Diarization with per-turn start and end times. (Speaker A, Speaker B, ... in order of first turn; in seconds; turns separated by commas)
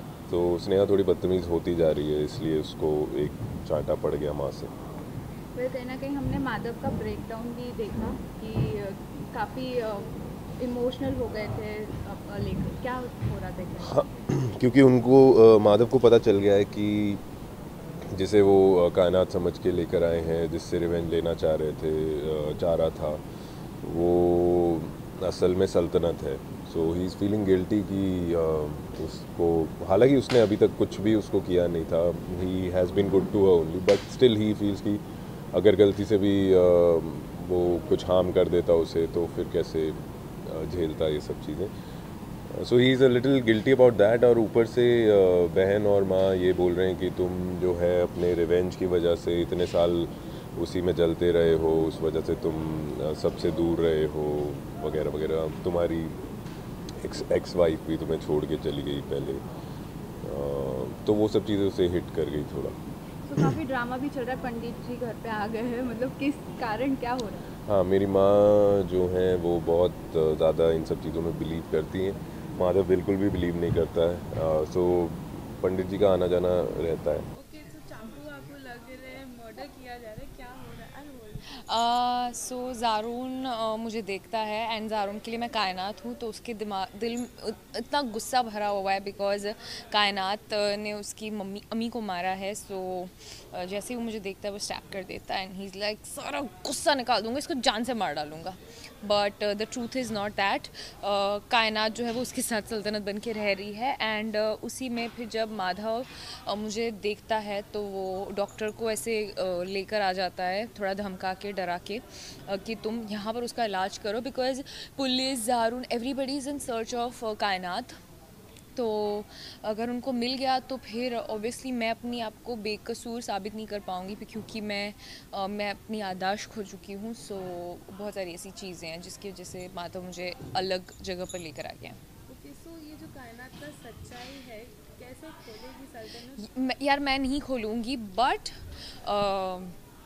Speaker A: 0.3-4.7, Speaker B: 5.5-14.0, Speaker A: 13.8-17.2, Speaker A: 18.1-23.2, Speaker A: 23.8-35.0, Speaker A: 35.5-41.7, Speaker A: 42.5-56.2, Speaker A: 57.0-59.4, Speaker A: 60.2-62.7, Speaker B: 63.3-67.5, Speaker A: 67.7-77.2, Speaker C: 77.4-81.5, Speaker D: 81.7-118.0, Speaker D: 118.8-132.0, Speaker C: 132.3-136.4, Speaker D: 136.3-139.7